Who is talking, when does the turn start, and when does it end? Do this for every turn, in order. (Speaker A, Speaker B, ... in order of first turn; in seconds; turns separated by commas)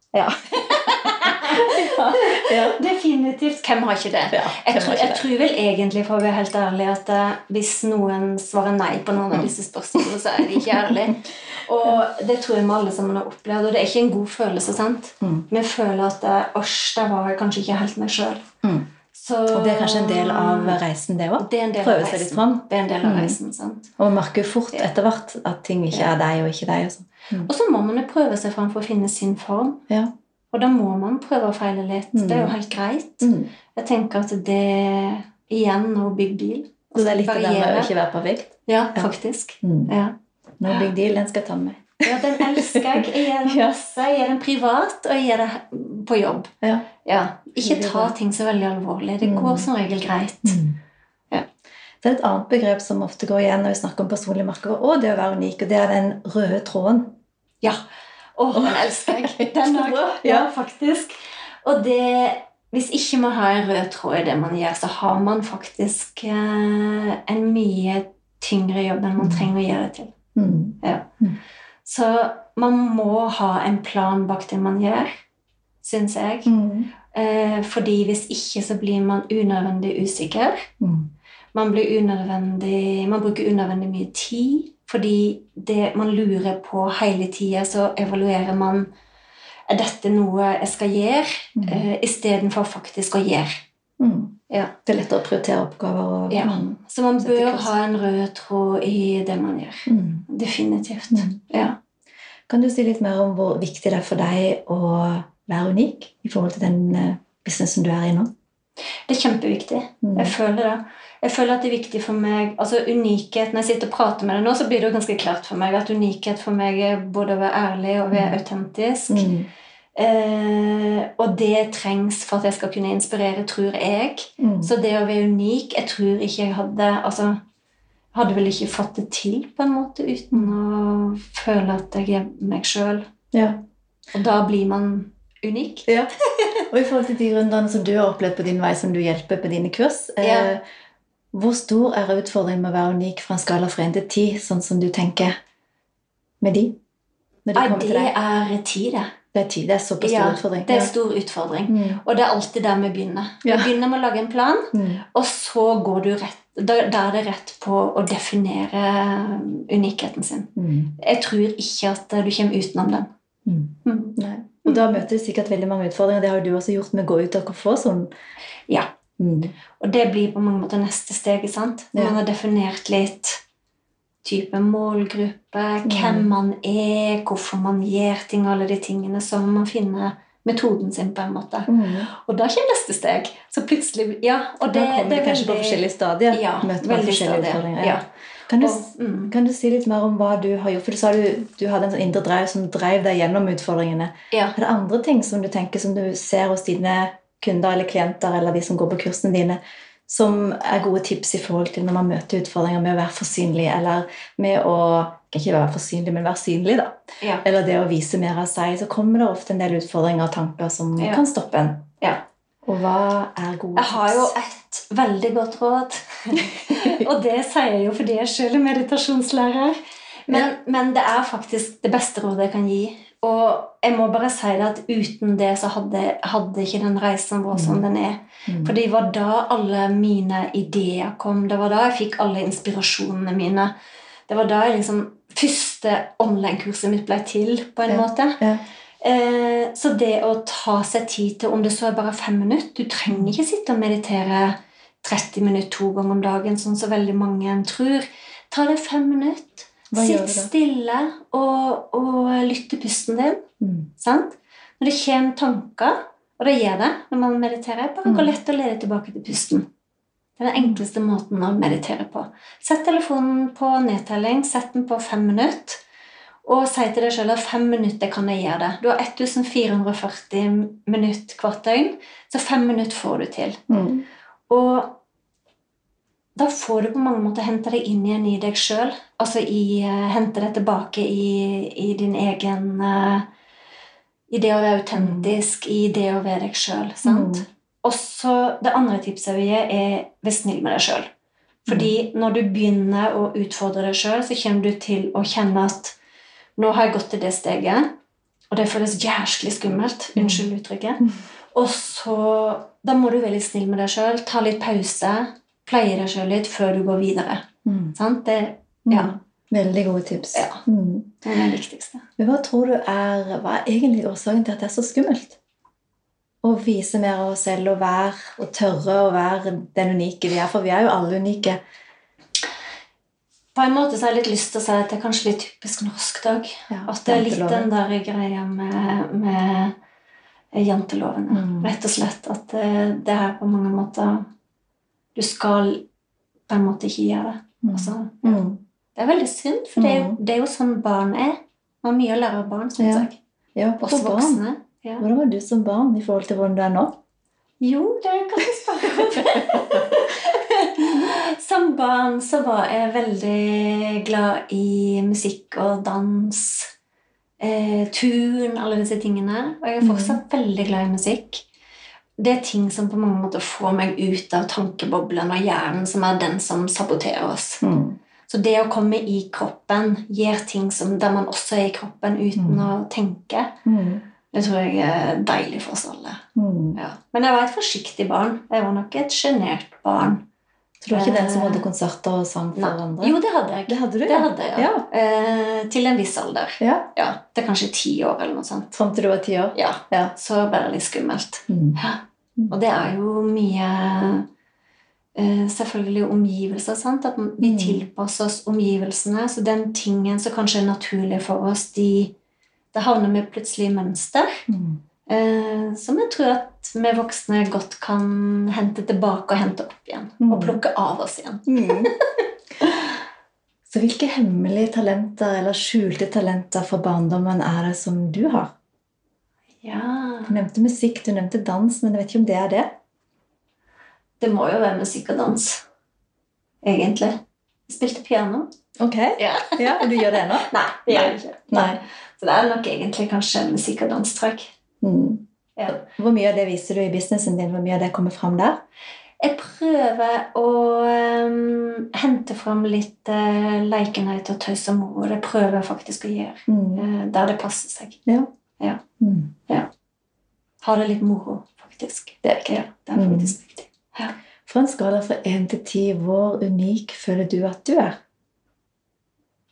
Speaker A: 0.1-2.8, Speaker B: 0.6-18.4, Speaker A: 4.3-5.3, Speaker A: 10.5-11.1, Speaker A: 15.2-15.4, Speaker A: 18.6-18.9, Speaker B: 19.1-20.8, Speaker A: 19.5-23.4, Speaker B: 21.4-23.9, Speaker A: 24.0-27.5, Speaker B: 27.4-29.8, Speaker B: 30.5-37.9, Speaker A: 32.1-32.5, Speaker A: 33.2-33.5, Speaker A: 36.9-39.1, Speaker B: 38.6-40.1, Speaker A: 39.6-39.9, Speaker A: 40.6-43.7, Speaker B: 42.0-46.5, Speaker A: 46.6-46.9, Speaker B: 47.0-50.6, Speaker A: 47.6-48.1, Speaker A: 49.2-49.7, Speaker A: 50.4-50.8, Speaker A: 52.0-57.2, Speaker B: 58.4-70.1, Speaker A: 58.5-60.5, Speaker A: 69.2-69.5, Speaker A: 70.3-71.4, Speaker B: 70.8-71.1, Speaker B: 71.8-75.2, Speaker B: 75.8-76.5, Speaker A: 76.5-76.9, Speaker B: 77.1-80.7, Speaker A: 80.8-81.1, Speaker B: 81.5-88.9, Speaker B: 89.7-93.6, Speaker A: 91.6-91.8, Speaker A: 94.0-97.7, Speaker B: 96.3-101.8, Speaker A: 99.9-100.2, Speaker A: 101.1-101.4, Speaker A: 102.5-108.3, Speaker B: 109.1-119.3, Speaker A: 110.0-110.3, Speaker A: 118.1-118.4, Speaker A: 119.1-119.5, Speaker B: 120.0-127.4, Speaker A: 124.4-124.7, Speaker B: 128.1-133.0, Speaker A: 133.3-133.6, Speaker B: 134.1-135.9, Speaker A: 136.7-140.6, Speaker B: 140.2-140.5, Speaker A: 141.3-145.3, Speaker A: 146.4-146.8, Speaker A: 147.4-148.1, Speaker B: 147.5-149.1, Speaker A: 149.3-150.9, Speaker B: 150.0-163.1, Speaker A: 151.7-152.0, Speaker A: 153.4-153.7, Speaker A: 154.7-155.0, Speaker A: 160.6-160.9, Speaker A: 163.4-168.1, Speaker B: 163.8-164.8, Speaker A: 169.2-169.5, Speaker B: 169.8-173.4, Speaker B: 174.2-188.0, Speaker A: 175.8-176.3, Speaker A: 181.7-182.1, Speaker A: 184.7-211.9, Speaker B: 188.6-189.3, Speaker B: 211.0-211.2, Speaker A: 212.6-214.3, Speaker B: 213.8-233.7, Speaker A: 216.8-217.1, Speaker A: 227.5-227.8, Speaker A: 228.5-228.7, Speaker B: 234.3-238.4, Speaker A: 237.9-238.6, Speaker B: 239.0-253.4, Speaker A: 243.1-243.3, Speaker A: 249.9-250.5, Speaker A: 253.6-253.9, Speaker B: 254.0-259.7, Speaker A: 258.0-258.4, Speaker B: 260.4-265.8, Speaker B: 266.4-273.6, Speaker A: 273.7-274.1, Speaker B: 274.5-275.0, Speaker B: 276.4-283.3, Speaker B: 284.3-291.1, Speaker A: 284.9-285.3, Speaker A: 287.0-287.4, Speaker A: 291.7-291.9, Speaker B: 291.7-295.9, Speaker B: 296.6-297.9, Speaker B: 298.5-309.1, Speaker A: 300.1-300.4, Speaker A: 307.6-307.9, Speaker A: 308.9-311.1, Speaker B: 310.3-310.6, Speaker B: 311.2-312.0, Speaker A: 312.2-315.4, Speaker A: 316.4-321.6, Speaker B: 323.5-329.8, Speaker A: 326.7-327.7, Speaker B: 330.5-334.3, Speaker A: 331.3-331.7, Speaker B: 335.1-335.9, Speaker B: 336.5-338.4, Speaker A: 337.6-338.6, Speaker B: 338.9-343.2, Speaker A: 339.8-340.2, Speaker A: 342.8-344.4, Speaker B: 343.8-345.1, Speaker A: 345.0-347.0, Speaker B: 347.6-356.7, Speaker A: 349.1-350.0, Speaker B: 357.4-361.4, Speaker A: 359.8-360.2, Speaker B: 362.2-367.6, Speaker A: 367.6-368.0, Speaker B: 368.3-373.6, Speaker A: 372.4-372.7, Speaker A: 373.6-374.0, Speaker B: 374.3-380.2, Speaker A: 376.3-376.8, Speaker A: 380.8-384.9, Speaker B: 380.9-381.6, Speaker B: 382.5-388.8, Speaker A: 386.6-386.9, Speaker A: 388.8-390.1, Speaker B: 389.5-394.2, Speaker A: 391.5-391.8, Speaker B: 395.1-402.1, Speaker A: 397.4-397.9, Speaker B: 402.7-404.5, Speaker A: 404.5-404.8, Speaker B: 405.1-412.8, Speaker A: 410.2-410.6, Speaker A: 411.5-411.9, Speaker A: 413.7-418.5, Speaker B: 419.6-420.4, Speaker A: 420.3-422.8, Speaker B: 424.2-425.6, Speaker B: 426.6-428.5, Speaker A: 428.8-431.8, Speaker B: 429.2-434.5, Speaker A: 434.8-438.6, Speaker B: 439.2-448.0, Speaker A: 446.5-446.8, Speaker A: 449.0-449.3, Speaker B: 450.6-454.1, Speaker A: 452.2-453.3, Speaker A: 454.4-458.0